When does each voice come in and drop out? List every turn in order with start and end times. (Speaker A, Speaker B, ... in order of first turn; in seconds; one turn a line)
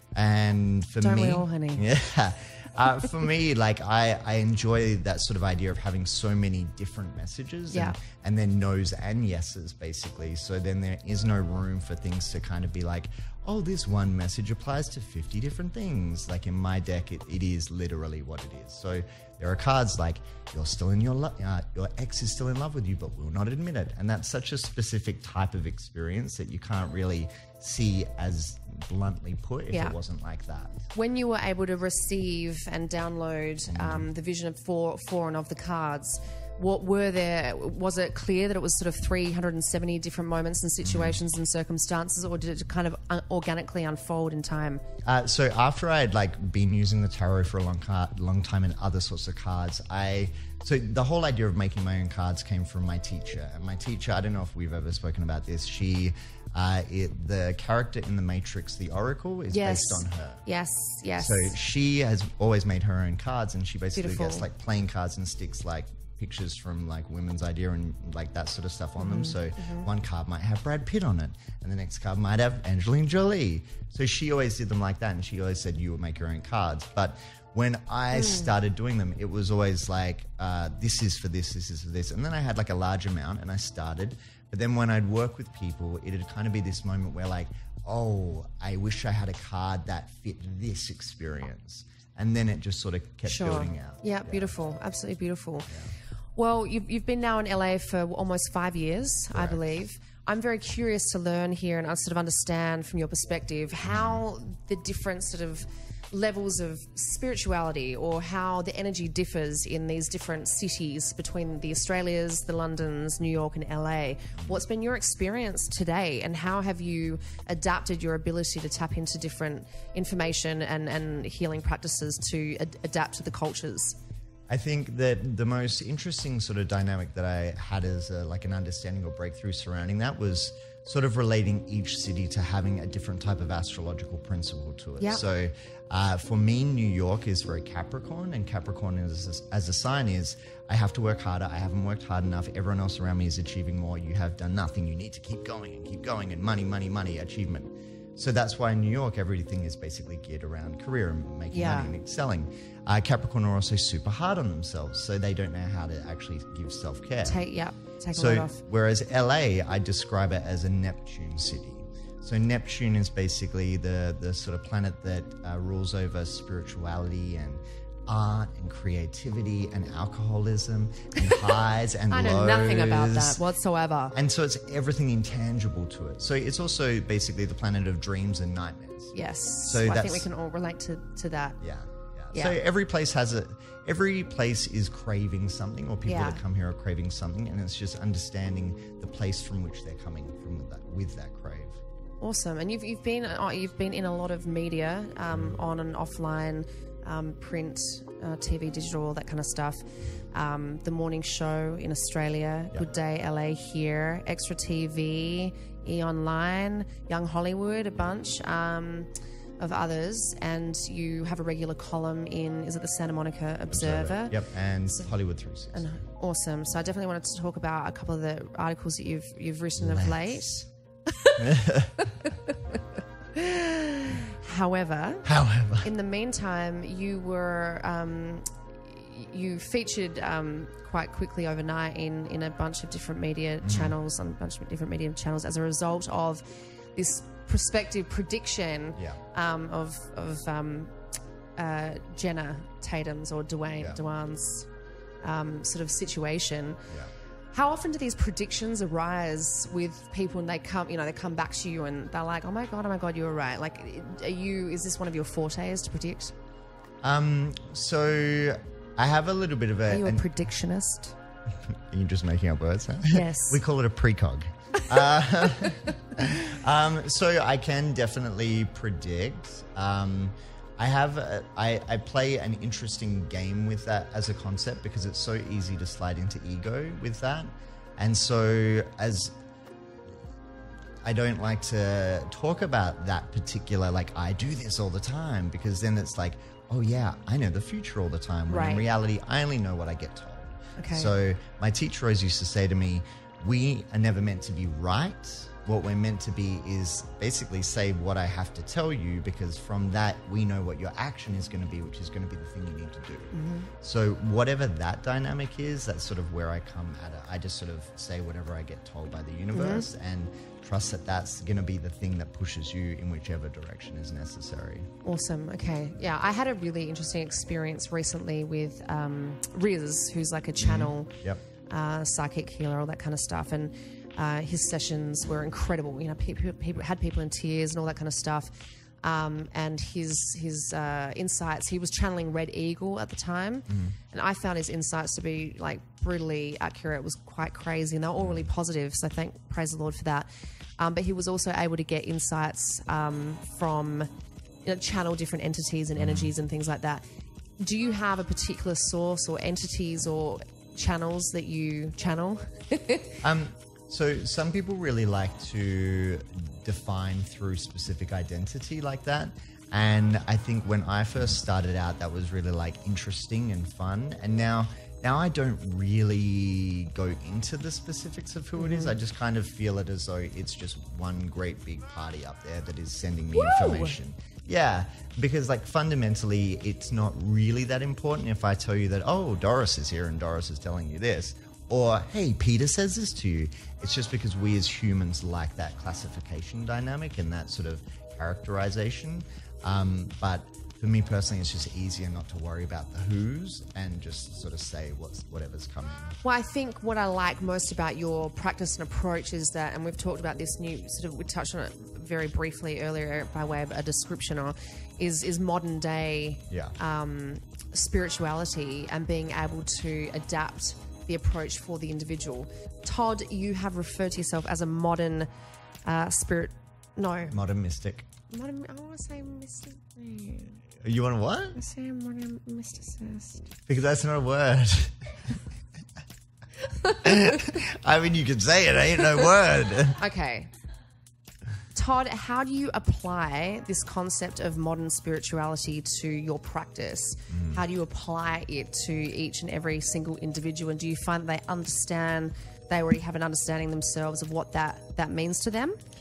Speaker A: 0.1-30.8
Speaker B: 1.0-1.9
Speaker B: 7.7-8.0
Speaker B: 29.7-29.9
Speaker B: 30.9-44.8
Speaker A: 33.7-34.1
Speaker A: 40.8-41.2
Speaker A: 45.0-60.4
Speaker B: 59.5-61.5
Speaker A: 61.2-94.5
Speaker B: 64.0-64.5
Speaker B: 69.0-69.9
Speaker B: 78.1-78.5
Speaker B: 93.2-95.7
Speaker B: 96.4-124.0
Speaker A: 99.3-99.7
Speaker A: 103.8-104.2
Speaker A: 124.5-157.4
Speaker B: 151.5-151.9
Speaker B: 157.2-158.6
Speaker A: 158.1-173.4
Speaker B: 172.1-174.2
Speaker A: 174.1-180.3
Speaker B: 179.1-181.6
Speaker A: 181.6-191.8
Speaker B: 186.1-186.4
Speaker B: 192.2-214.4
Speaker A: 213.7-215.9
Speaker B: 215.8-222.8
Speaker A: 219.8-220.4
Speaker A: 221.4-222.1
Speaker B: 223.3-236.4
Speaker A: 225.2-225.9
Speaker A: 233.6-234.0
Speaker B: 236.9-240.9
Speaker B: 241.6-244.7
Speaker B: 245.2-246.8
Speaker B: 247.5-256.4
Speaker A: 257.0-260.2
Speaker B: 259.9-261.1
Speaker A: 261.6-279.4
Speaker B: 263.1-263.6
Speaker A: 281.0-314.9
Speaker B: 288.5-288.9
Speaker B: 290.8-291.1
Speaker B: 303.3-303.7
Speaker B: 309.5-309.9
Speaker B: 315.0-321.1
Speaker A: 320.6-321.4
Speaker B: 321.7-328.5
Speaker B: 329.0-344.1
Speaker A: 333.7-333.9
Speaker A: 338.2-338.5
Speaker B: 344.6-347.0
Speaker A: 346.0-346.3
Speaker B: 347.6-353.2
Speaker A: 353.2-396.1
Speaker B: 368.6-369.0
Speaker B: 373.3-374.0
Speaker B: 396.2-415.3
Speaker A: 406.5-406.8
Speaker B: 415.9-417.4
Speaker A: 417.3-418.1
Speaker B: 418.3-420.6
Speaker A: 420.8-421.6
Speaker B: 421.6-423.4
Speaker A: 423.7-425.3
Speaker B: 426.8-427.1
Speaker A: 427.0-430.0
Speaker B: 430.0-430.5
Speaker B: 431.7-445.8
Speaker A: 437.3-437.6